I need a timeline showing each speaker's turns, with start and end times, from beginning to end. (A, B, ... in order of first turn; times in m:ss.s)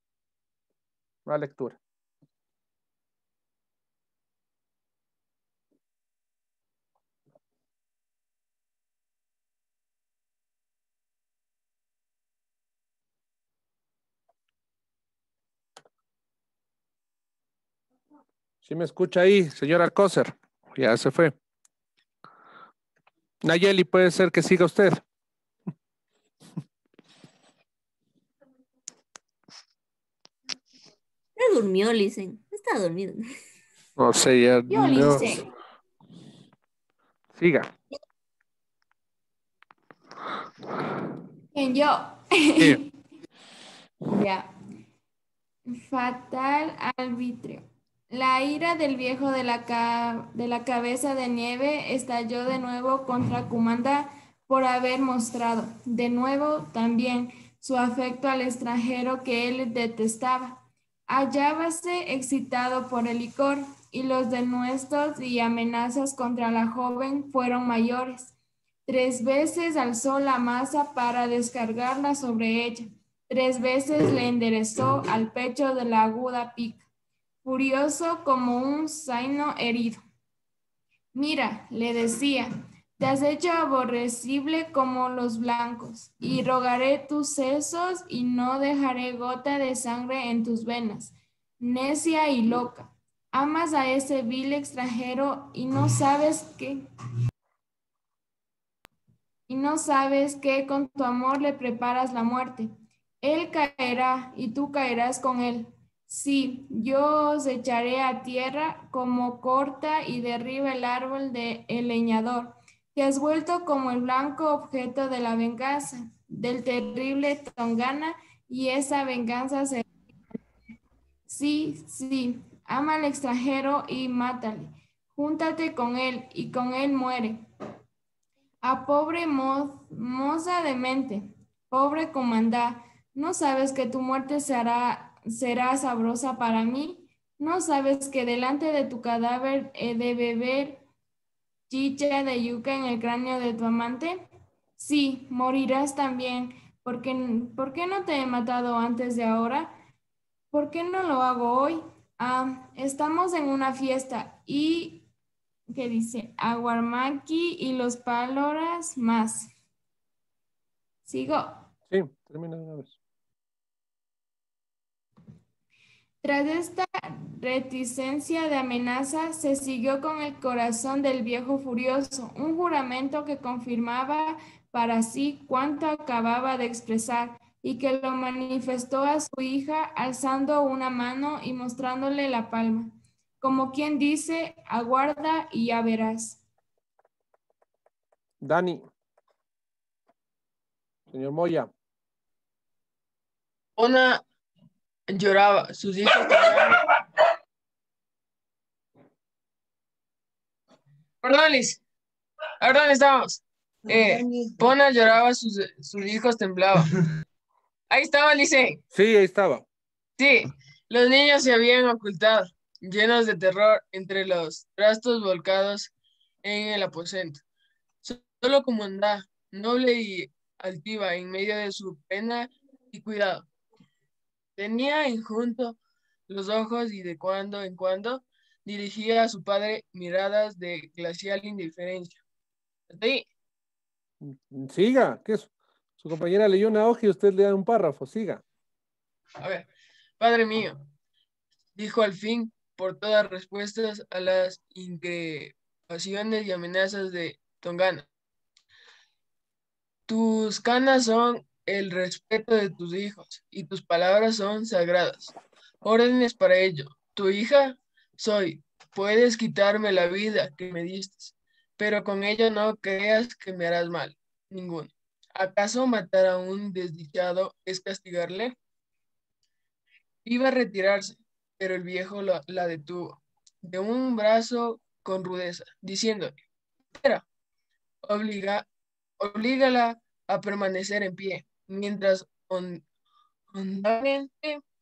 0:01.2-0:01.8 A
0:18.6-0:21.3 A
0:23.4-0:25.0 A
0:31.4-0:33.3 B
0:34.0-0:35.3 A
0:34.7-0:35.4 B
0:35.0-0:35.3 C
0:37.3-0:37.7 A
0:41.5-0:42.9 C
0:44.0-0:44.5 C
0:45.7-1:08.3 C
1:08.8-1:16.8 C
1:17.4-1:20.0 C
1:21.1-1:36.8 C
1:39.5-1:42.7 C
1:43.2-1:59.8 C
2:01.3-2:07.4 C
2:08.6-2:20.8 C
2:21.7-2:24.3 C
2:24.8-2:29.8 C
2:30.5-2:35.0 C
2:35.7-2:39.5 C
2:41.0-2:41.5 C
2:41.9-2:43.0 A
2:46.2-3:06.4 C
3:08.4-3:08.9 A
3:11.1-3:11.7 A
3:13.8-3:14.2 D
3:15.1-3:16.9 D
3:21.2-3:21.8 D
3:22.6-3:27.0 D
3:27.9-3:28.8 D
3:28.9-3:29.6 A
3:30.2-3:35.9 D
3:36.4-3:37.4 D
3:38.0-3:43.5 D
3:44.6-3:45.8 D
3:46.3-3:52.2 D
3:52.9-3:53.3 D
3:54.2-3:58.4 A
3:59.4-3:59.7 D
4:00.2-4:00.8 D
4:01.8-4:08.0 D
4:10.1-4:28.6 D
4:30.2-4:36.4 D
4:36.9-4:37.2 D
4:38.0-4:38.7 D
4:39.2-4:42.8 D
4:43.5-4:44.6 D